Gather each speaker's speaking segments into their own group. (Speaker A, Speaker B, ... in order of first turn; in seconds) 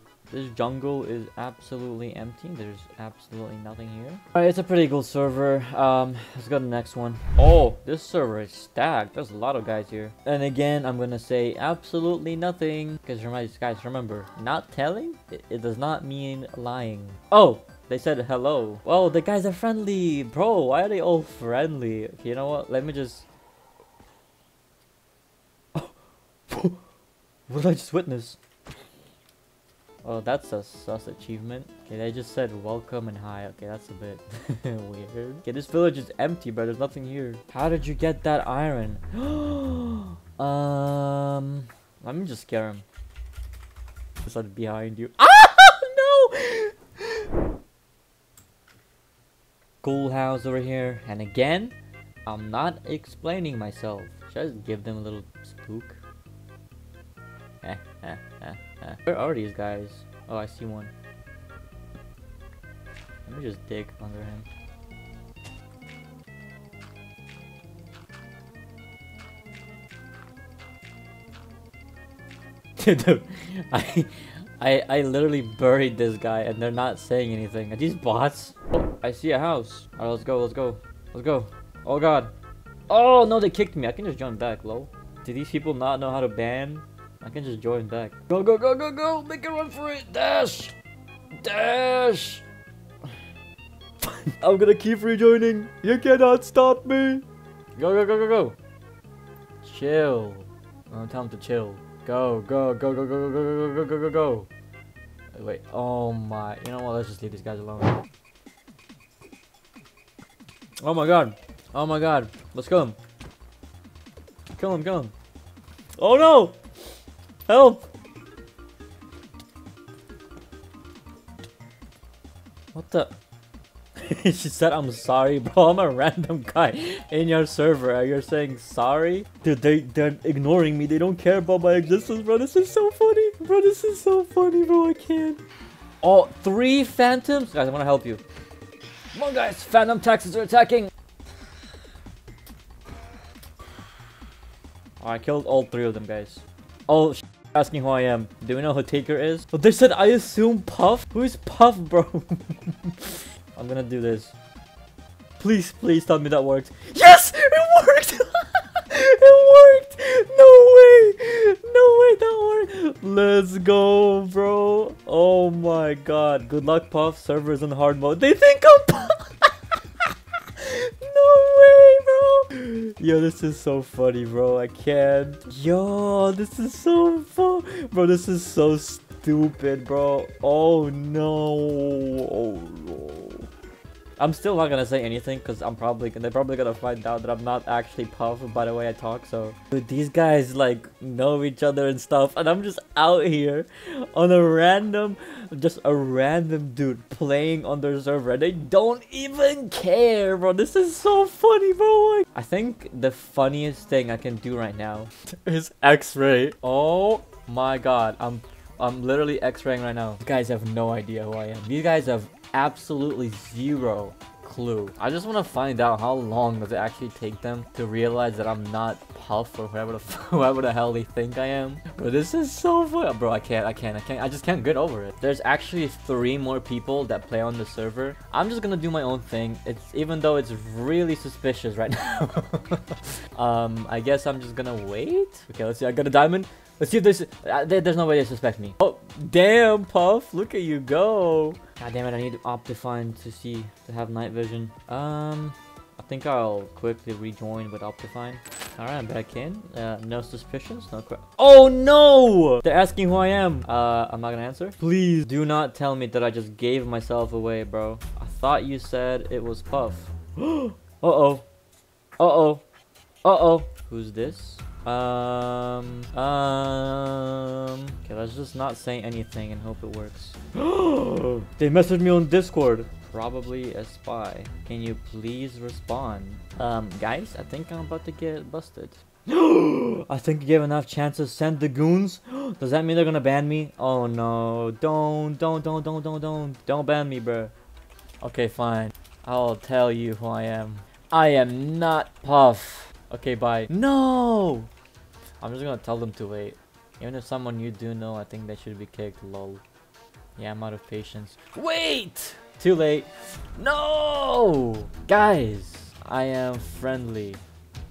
Speaker A: 0.3-23.2, 26.5-26.8, 27.5-28.4, 30.0-42.8, 44.2-47.2, 49.8-51.7, 52.2-56.0, 57.6-60.9, 63.3-64.5, 72.8-82.3, 82.9-90.7, 91.4-92.4, 94.0-97.2, 97.8-98.5, 99.6-104.5, 105.3-108.0, 110.8-113.0, 114.6-115.1, 116.0-116.6, 117.5-117.9, 122.7-123.1, 124.0-135.4, 136.0-138.2, 139.1-140.9, 145.0-154.3, 155.4-169.5, 170.6-183.5, 184.2-261.4, 262.2-262.6, 263.2-287.5, 288.2-294.7, 295.4-299.6, 300.4-307.4